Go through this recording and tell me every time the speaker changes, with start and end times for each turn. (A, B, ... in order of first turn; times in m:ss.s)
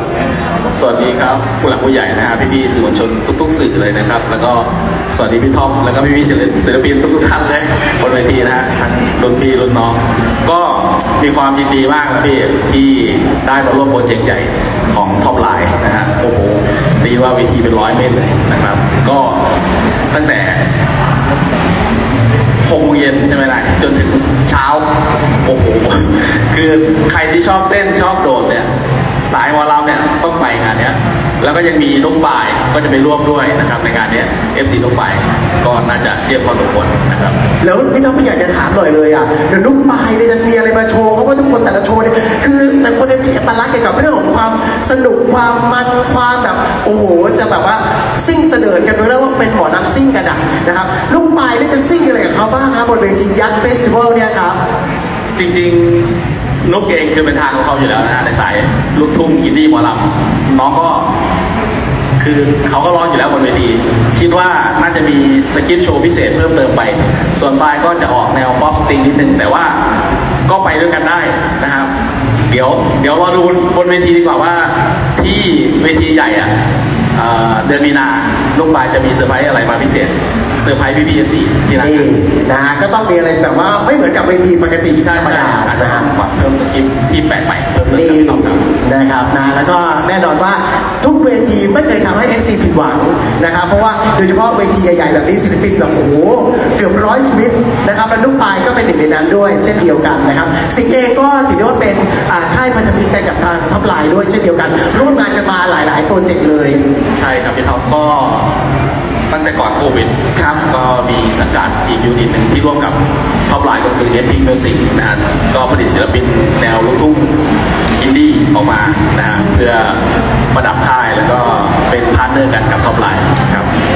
0:00.7-0:19.5 A
0:20.1-0:20.6 A
0:22.6-0:24.8 A
0:25.4-0:28.7 A
0:29.2-0:37.4 A
0:37.6-0:54.6 B
0:55.4-0:56.1 A
0:56.6-1:01.1 A
1:02.2-1:09.8 A
1:10.5-1:11.9 A
1:12.5-1:16.5 A
1:17.1-1:22.0 A
1:21.8-1:26.1 B
1:25.0-1:28.6 A
1:27.9-1:46.8 B
1:47.1-1:48.5 A
1:49.3-1:57.3 A
1:58.0-2:00.0 A
2:00.5-2:03.7 A